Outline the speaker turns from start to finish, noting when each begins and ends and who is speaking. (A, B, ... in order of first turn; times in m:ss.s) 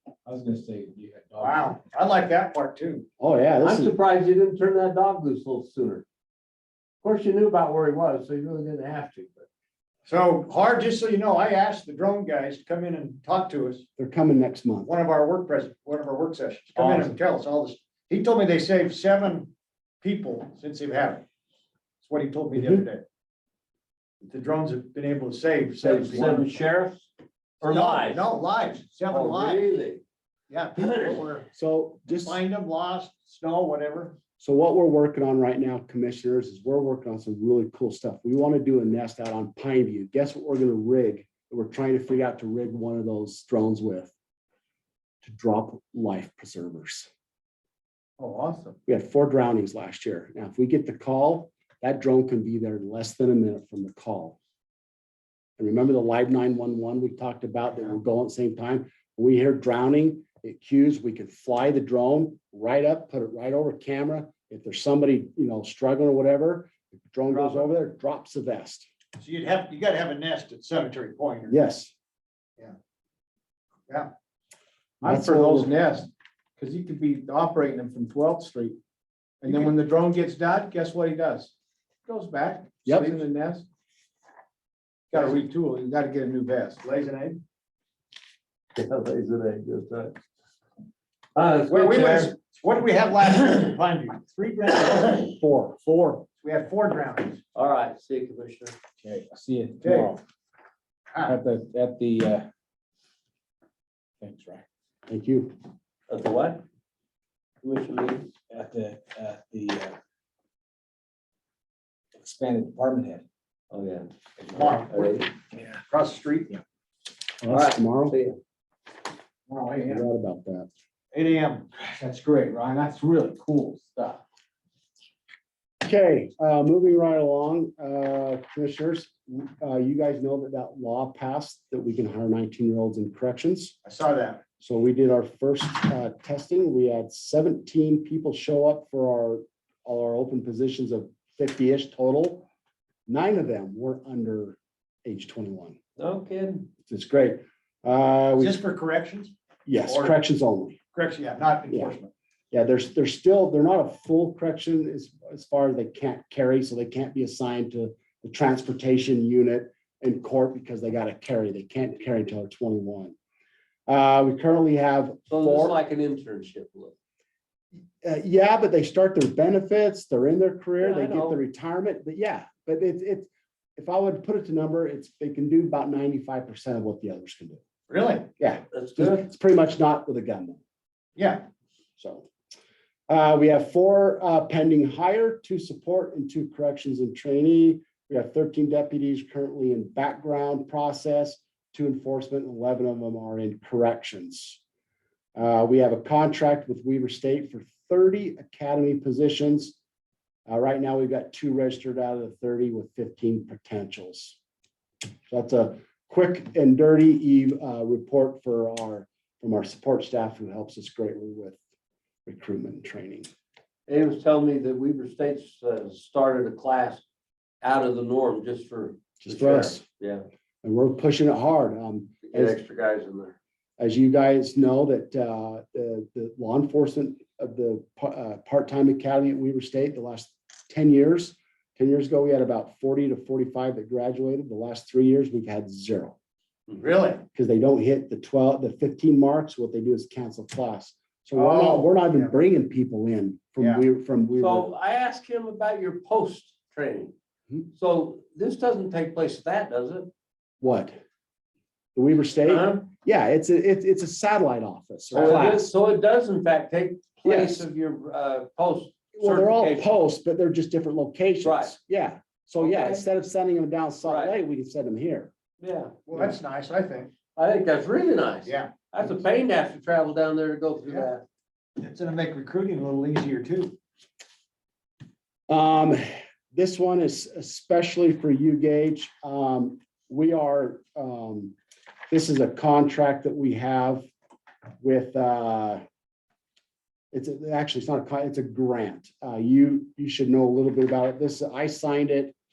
0:00.2-0:01.7 A
0:01.4-0:03.1 B
0:03.2-0:03.9 C
0:03.6-0:06.0 D
0:07.0-0:09.5 D
0:10.0-0:13.8 B
0:14.0-0:14.9 C
0:14.8-0:21.2 B
0:16.8-0:17.0 D
0:22.0-0:23.0 B
0:24.2-0:26.5 B
0:25.8-0:27.1 D
0:27.6-0:28.2 D
0:27.6-0:29.7 B
0:29.1-0:30.0 D
0:30.5-0:31.5 B
0:30.8-0:31.2 D
0:31.5-0:32.4 C
0:32.1-0:34.1 B
0:34.4-0:44.1 C
0:45.2-0:47.1 C
0:48.8-0:54.4 C
0:55.6-1:08.9 C
1:07.3-1:07.7 B
1:09.2-1:11.5 B
1:11.5-1:11.9 C
1:15.0-1:15.7 C
1:15.1-1:15.4 A
1:16.6-1:18.8 A
1:19.4-1:21.5 A
1:19.5-1:19.7 B
1:22.1-1:23.6 A
1:22.8-1:23.2 C
1:25.1-1:26.8 A
1:26.8-1:27.4 B
1:28.7-1:30.1 D
1:31.3-1:32.3 D
1:31.7-1:37.4 B
1:35.3-1:35.8 C
1:37.5-1:38.7 D
1:39.0-1:40.2 A
1:39.8-1:40.1 B
1:41.2-1:42.5 A
1:44.2-1:44.6 A
1:45.1-1:45.6 C
1:46.1-1:46.6 D
1:47.6-1:48.3 D
1:48.5-1:50.0 A
1:52.2-1:53.2 A
1:53.7-1:55.3 D
1:54.5-1:55.2 B
1:55.9-1:56.6 B
1:57.4-1:58.2 C
1:57.5-1:58.4 D
1:59.5-2:00.0 A
1:59.8-2:00.7 C
2:01.1-2:01.7 B
2:02.0-2:04.2 A
2:05.8-2:13.7 C
2:13.8-2:14.4 B
2:14.6-2:22.4 C
2:23.1-2:25.8 C
2:26.0-2:26.7 D
2:26.9-2:28.6 C
2:28.4-2:29.3 B
2:29.7-2:30.8 C
2:29.8-2:30.2 B
2:30.9-2:32.1 B
2:31.7-2:31.9 C
2:32.5-2:43.1 C
2:43.9-2:45.8 C
2:45.3-2:46.9 D
2:48.0-2:57.6 C
2:50.8-2:51.4 D
2:57.9-2:58.3 B
2:58.4-3:00.6 C
2:58.7-2:59.2 D
3:01.2-3:01.4 B
3:02.0-3:02.3 C
3:03.1-3:14.6 C
3:15.4-3:19.8 C
3:20.5-3:24.4 C
3:25.3-3:31.6 C
3:32.2-3:33.3 C
3:33.9-3:37.0 D
3:37.6-3:40.2 D
3:39.2-3:39.8 C
3:40.6-3:42.6 C
3:42.2-3:43.3 D
3:43.8-3:56.2 C
3:56.8-3:57.2 B
3:57.3-4:04.7 C
4:01.3-4:02.3 B
4:04.4-4:07.1 D
4:07.7-4:10.1 D
4:10.6-4:11.0 C
4:12.0-4:15.7 C
4:12.4-4:12.9 D
4:15.1-4:19.9 D
4:17.2-4:17.6 C
4:19.1-4:25.3 C
4:21.4-4:21.8 D
4:22.6-4:23.0 D
4:24.0-4:24.3 D
4:25.6-4:26.0 D
4:26.0-4:27.1 B
4:27.3-4:31.2 D
4:28.4-4:28.7 B
4:31.8-4:33.8 B
4:35.5-4:41.5 C
4:42.1-4:44.1 C
4:44.8-4:45.8 C
4:47.1-4:52.3 C